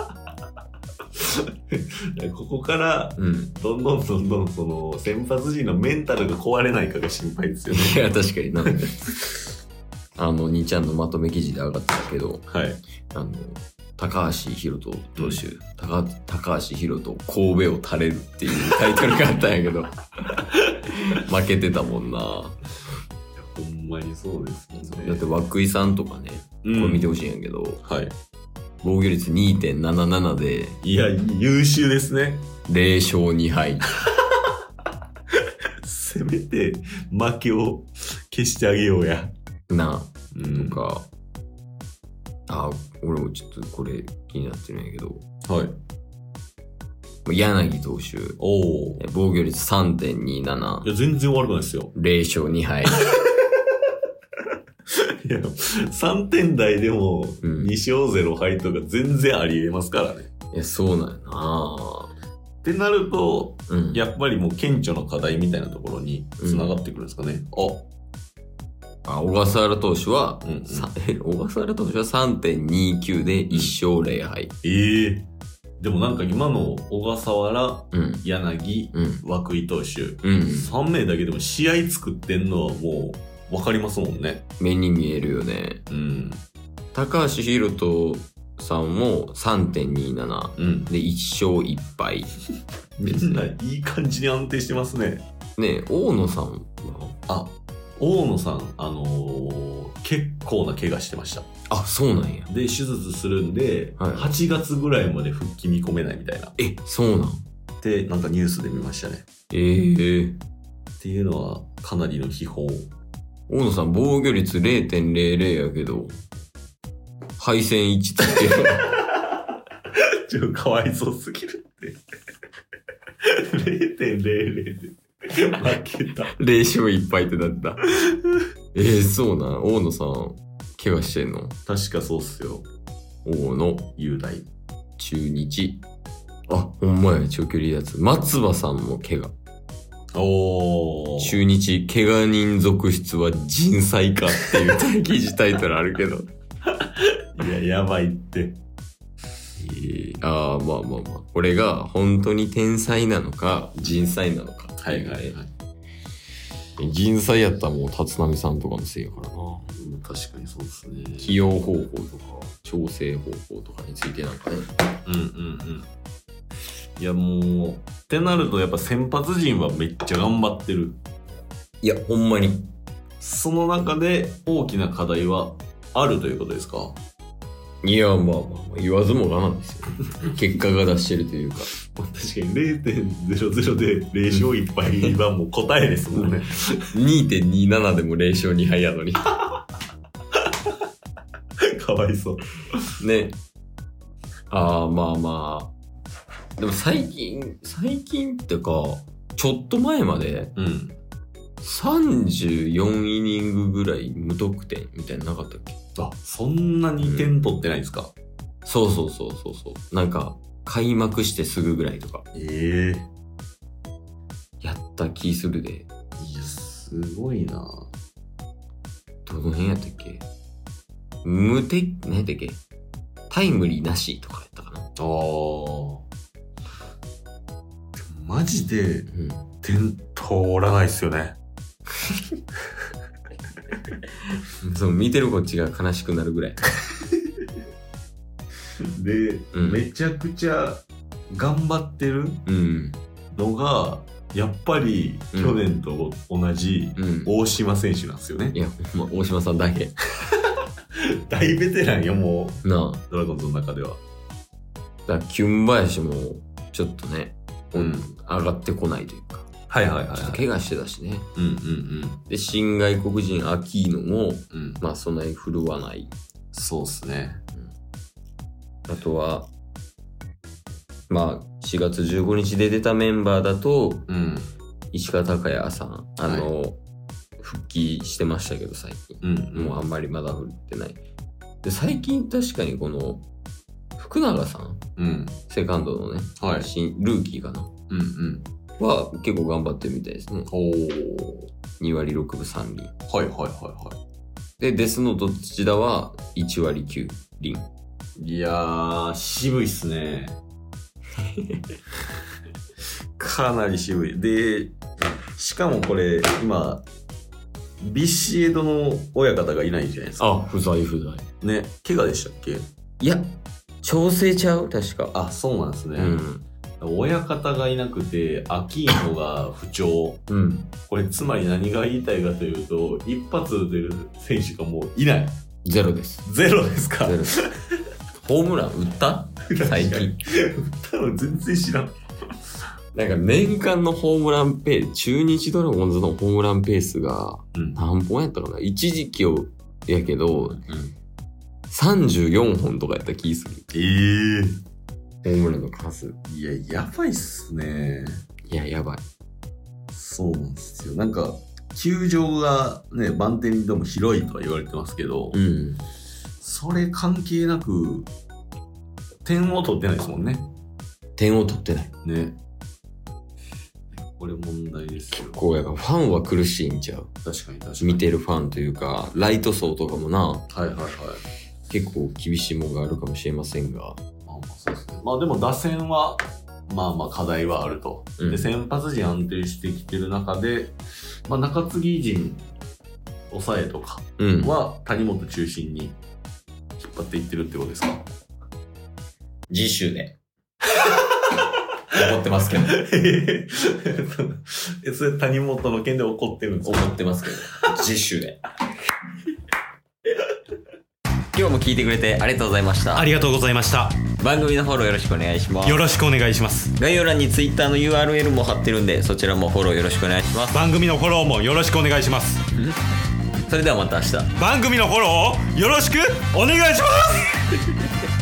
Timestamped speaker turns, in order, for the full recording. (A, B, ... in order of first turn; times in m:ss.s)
0:01.2-0:08.0 A
0:03.2-0:03.5 B
0:07.7-0:09.0 B
0:10.2-0:12.4 B
0:12.5-0:12.8 A
0:13.1-0:22.6 B
0:15.2-0:15.4 A
0:23.4-0:25.2 A
0:24.8-0:27.8 B
0:26.6-0:27.1 A
0:27.8-0:28.1 A
0:28.8-0:30.8 B
0:30.8-0:32.5 A
0:32.7-0:33.9 B
0:35.8-0:39.3 A
0:39.7-0:41.1 B
0:40.3-0:40.8 A
0:42.5-0:45.2 B
0:45.5-0:45.8 A
0:47.2-0:48.4 B
0:48.4-0:49.0 A
0:49.0-0:50.9 B
0:50.8-0:51.9 A
0:51.9-0:53.0 B
0:53.1-0:53.4 A
0:54.9-1:00.3 A
0:57.4-0:57.7 B
1:00.5-1:02.1 B
1:02.6-1:07.9 A
1:03.7-1:04.0 B
1:06.4-1:06.8 B
1:09.0-1:14.5 B
1:10.4-1:10.9 A
1:14.6-1:15.3 A
1:15.8-1:24.4 A
1:17.9-1:18.2 B
1:18.9-1:19.2 B
1:20.2-1:20.7 B
1:24.6-1:25.8 B
1:25.9-1:26.4 A
1:26.9-1:32.3 B
1:30.6-1:30.9 A
1:33.0-1:35.2 A
1:33.0-1:33.4 B
1:35.6-1:37.2 B
1:37.3-1:41.5 A
1:41.7-1:42.5 B
1:42.5-1:46.6 A
1:44.0-1:44.4 B
1:46.6-1:47.4 B
1:47.8-1:49.2 A
1:49.5-1:50.4 B
1:51.0-1:52.9 A
1:53.5-1:56.2 B
1:57.4-1:59.0 B
2:00.0-2:02.0 A
2:03.2-2:06.3 A
2:06.3-2:07.8 B
2:08.7-2:11.6 B
2:11.7-2:12.7 A
2:13.2-2:13.9 B
2:14.0-2:14.5 A
2:15.0-2:15.8 B
2:16.5-2:19.3 B
2:20.1-2:21.4 A
2:21.2-2:26.3 B
2:24.3-2:24.7 A
2:26.8-2:28.6 A
2:29.6-2:30.2 A
2:30.2-2:35.4 B
2:34.8-2:35.5 A
2:36.8-2:39.7 B
2:39.7-2:41.4 A
2:41.2-2:44.7 B
2:45.0-2:45.9 A
2:47.0-2:51.0 A
2:51.8-2:52.7 B
2:53.2-2:57.0 A
2:57.8-3:01.7 B
3:01.9-3:06.8 A
3:06.1-3:06.4 B
3:06.9-3:09.3 B
3:11.6-3:12.4 A
3:13.0-3:13.4 B
3:14.5-3:15.7 B
3:16.6-3:20.5 B
3:20.6-3:21.0 A
3:21.6-3:25.8 B
3:26.0-3:28.1 A
3:27.0-3:27.3 B
3:28.6-3:32.2 B
3:32.3-3:33.1 A
3:34.6-3:35.9 B
3:36.2-3:37.9 A
3:39.2-3:40.2 B
3:41.2-3:42.6 B
3:43.3-3:44.9 B
3:45.0-3:46.0 A
3:48.0-3:51.4 A
3:49.1-3:49.5 B
3:54.6-3:56.6 B
3:58.8-4:02.4 A
3:59.5-3:59.8 B
4:02.5-4:03.0 B
4:03.3-4:08.6 A
4:05.3-4:05.6 B
4:07.0-4:07.3 B
4:08.5-4:09.9 B
4:11.0-4:14.0 A
4:12.6-4:13.0 B
4:15.1-4:19.5 B
4:17.7-4:18.1 A
4:19.7-4:20.4 A
4:20.1-4:21.3 B
4:21.4-4:22.2 A
4:22.3-4:26.1 B
4:24.5-4:24.8 A
4:26.5-4:27.4 A
4:28.9-4:29.5 B
4:31.1-4:34.1 B
4:34.1-4:34.5 A
4:34.9-4:36.8 B
4:36.2-4:36.5 A
4:37.4-4:41.0 B
4:39.2-4:39.8 A
4:41.6-4:43.2 B
4:44.0-4:44.8 B
4:45.0-4:45.4 A
4:45.5-4:47.7 B
4:46.4-4:46.7 A
4:47.9-4:48.5 A
4:48.8-4:50.5 B
4:50.5-4:51.5 A
4:51.8-4:52.9 B
4:53.1-4:54.0 A
4:54.6-4:57.7 B
4:58.2-5:00.4 A
5:01.2-5:01.6 B
5:03.2-5:04.8 A
5:05.4-5:06.8 A
5:07.8-5:10.3 A
5:10.2-5:11.3 B
5:11.4-5:12.7 A
5:13.0-5:15.1 B
5:15.1-5:16.2 A
5:16.0-5:16.4 B
5:16.8-5:20.2 A
5:20.3-5:20.7 B
5:20.9-5:25.4 A
5:25.6-5:26.2 B
5:26.2-5:27.7 A
5:27.0-5:27.4 B
5:28.2-5:30.2 B
5:29.5-5:32.0 A
5:32.9-5:40.6 B
5:37.5-5:37.8 A
5:40.4-5:40.9 A
5:41.7-5:43.7 B
5:43.7-5:44.6 A
5:45.2-5:46.2 B
5:46.3-5:48.2 A
5:48.5-5:49.0 B
5:49.9-5:55.4 A
5:55.3-5:55.8 B
5:56.4-5:58.1 A
5:59.2-6:00.5 A
6:01.2-6:01.9 B
6:02.0-6:02.4 A
6:04.1-6:05.4 A
6:05.1-6:07.1 B
6:07.2-6:08.1 A
6:07.8-6:10.5 B
6:10.5-6:11.2 A
6:11.7-6:14.0 B
6:14.2-6:22.5 A
6:18.2-6:18.5 B
6:23.3-6:26.0 A
6:24.2-6:24.6 B
6:26.8-6:28.0 A
6:29.5-6:30.1 B
6:31.9-6:32.8 B
6:32.7-6:37.8 A
6:36.6-6:38.4 B
6:41.3-6:43.1 B
6:42.9-6:44.0 C
6:44.2-6:45.8 B
6:45.6-6:46.7 C
6:46.7-6:50.6 B
6:50.5-6:52.4 C
6:53.5-6:54.3 B
6:54.4-6:57.3 C